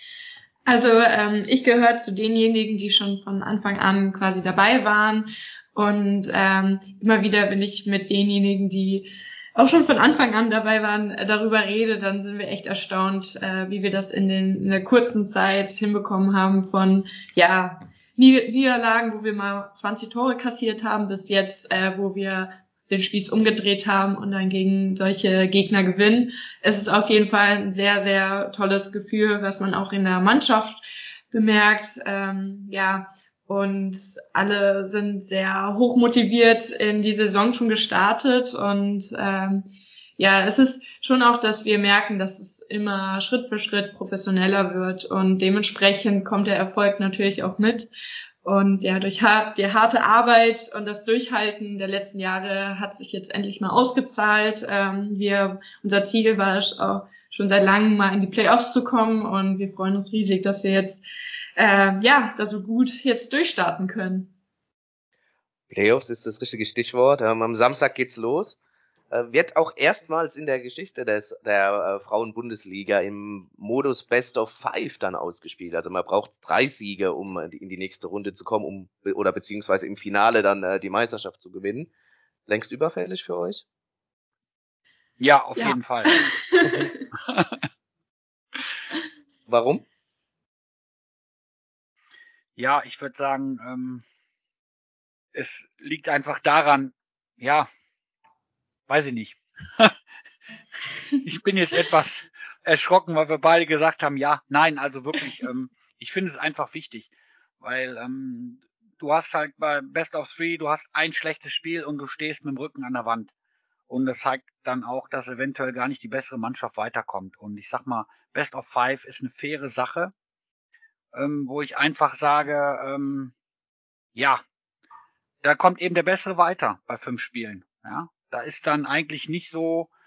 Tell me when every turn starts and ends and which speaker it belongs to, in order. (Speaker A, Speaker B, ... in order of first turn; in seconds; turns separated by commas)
Speaker A: 0.7-39.6, Speaker A: 40.2-47.9, Speaker A: 48.4-61.0, Speaker A: 61.6-64.3, Speaker B: 65.7-68.5, Speaker B: 69.1-81.9, Speaker B: 82.5-83.6, Speaker C: 85.2-86.1, Speaker A: 85.6-87.0, Speaker C: 87.3-87.6, Speaker B: 89.5-89.8, Speaker C: 92.6-94.0, Speaker C: 95.3-97.7, Speaker C: 98.9-99.9, Speaker C: 101.2-113.3, Speaker C: 113.9-120.1, Speaker C: 121.1-123.3, Speaker C: 124.1-124.4, Speaker C: 125.4-129.9